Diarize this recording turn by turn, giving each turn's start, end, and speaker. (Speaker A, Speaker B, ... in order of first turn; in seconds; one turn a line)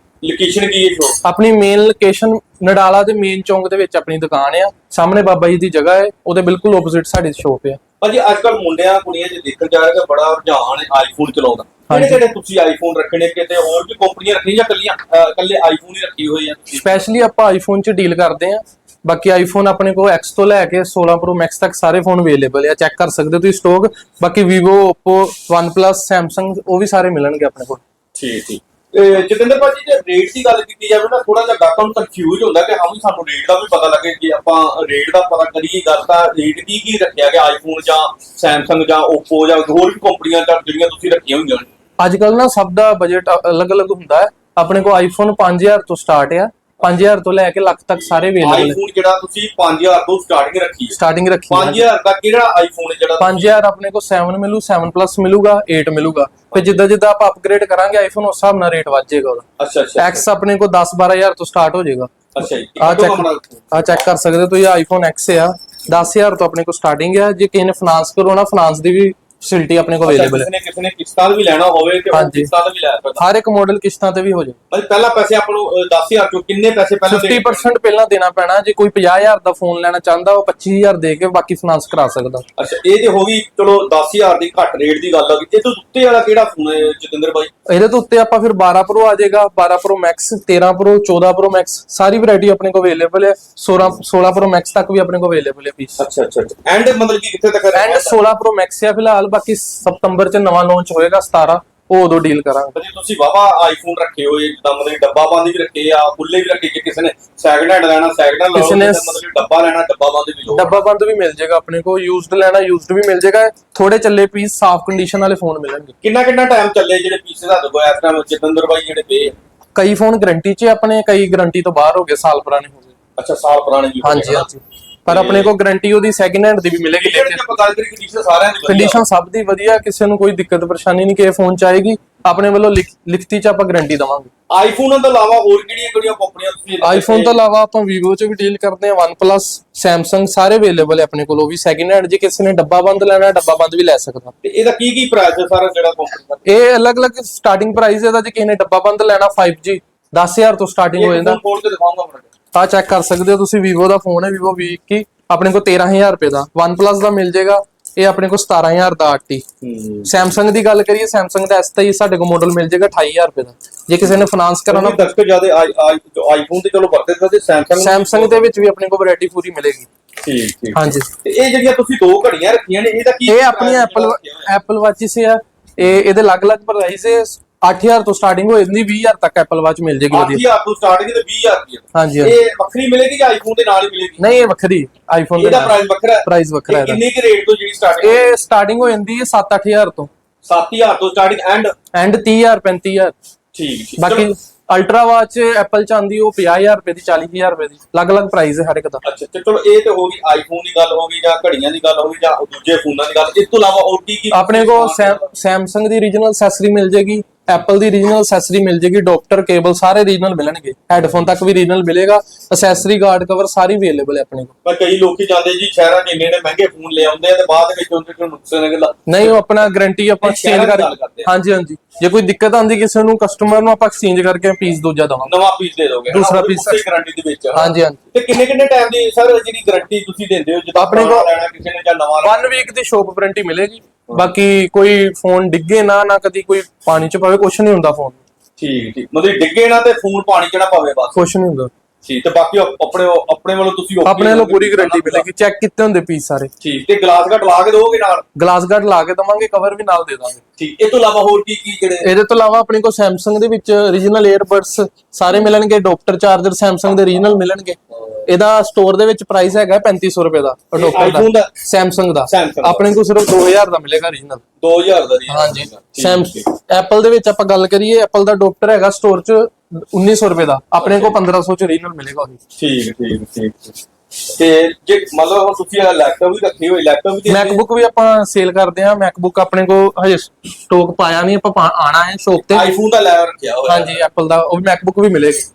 Speaker A: 0.2-1.2
Speaker B: 1.2-7.8
Speaker A: 8.0-17.1
Speaker B: 11.9-12.2
Speaker B: 16.7-27.8
Speaker A: 28.2-41.7
Speaker B: 42.0-48.8
Speaker A: 48.4-51.0
Speaker B: 50.9-51.9
Speaker A: 51.5-53.6
Speaker B: 53.2-59.5
Speaker A: 56.5-56.9
Speaker A: 59.6-60.2
Speaker B: 60.0-70.5
Speaker A: 62.4-64.1
Speaker A: 70.0-73.2
Speaker B: 72.1-72.5
Speaker B: 73.2-74.6
Speaker A: 74.7-77.7
Speaker B: 77.0-82.5
Speaker A: 82.6-87.5
Speaker B: 87.7-96.0
Speaker A: 96.0-98.2
Speaker B: 97.7-102.8
Speaker A: 102.7-110.8
Speaker B: 108.5-109.2
Speaker B: 110.5-115.9
Speaker A: 116.0-119.3
Speaker B: 119.8-122.9
Speaker A: 123.2-124.5
Speaker B: 124.0-127.5
Speaker A: 125.1-125.5
Speaker A: 127.0-129.0
Speaker B: 128.7-134.3
Speaker A: 134.5-137.4
Speaker B: 136.8-144.3
Speaker A: 144.4-146.4
Speaker B: 146.4-151.4
Speaker A: 151.0-152.3
Speaker B: 152.5-159.4
Speaker A: 159.6-160.1
Speaker B: 160.1-165.1
Speaker A: 164.7-168.6
Speaker B: 167.8-169.9
Speaker A: 170.2-174.5
Speaker B: 170.7-171.1
Speaker B: 173.3-180.4
Speaker A: 180.1-184.2
Speaker B: 181.9-182.4
Speaker B: 184.2-187.0
Speaker A: 185.4-188.4
Speaker B: 188.0-190.1
Speaker A: 190.4-191.7
Speaker B: 191.9-193.2
Speaker A: 193.5-194.3
Speaker B: 194.0-199.0
Speaker A: 199.0-205.3
Speaker B: 204.3-214.5
Speaker A: 214.6-219.4
Speaker B: 219.1-225.3
Speaker A: 220.2-221.3
Speaker A: 225.2-232.4
Speaker B: 226.1-226.8
Speaker B: 227.5-228.0
Speaker B: 230.8-231.3
Speaker B: 232.2-238.2
Speaker A: 238.6-241.2
Speaker B: 241.2-241.7
Speaker A: 242.1-245.3
Speaker B: 244.1-246.5
Speaker A: 246.6-248.3
Speaker B: 248.4-250.4
Speaker A: 250.6-252.1
Speaker B: 252.0-264.4
Speaker A: 260.8-261.5
Speaker A: 262.3-262.9
Speaker A: 264.6-266.5
Speaker B: 265.3-272.4
Speaker A: 270.8-271.1
Speaker A: 272.6-273.8
Speaker A: 274.4-277.6
Speaker B: 277.3-282.7
Speaker A: 282.5-284.0
Speaker B: 283.7-285.5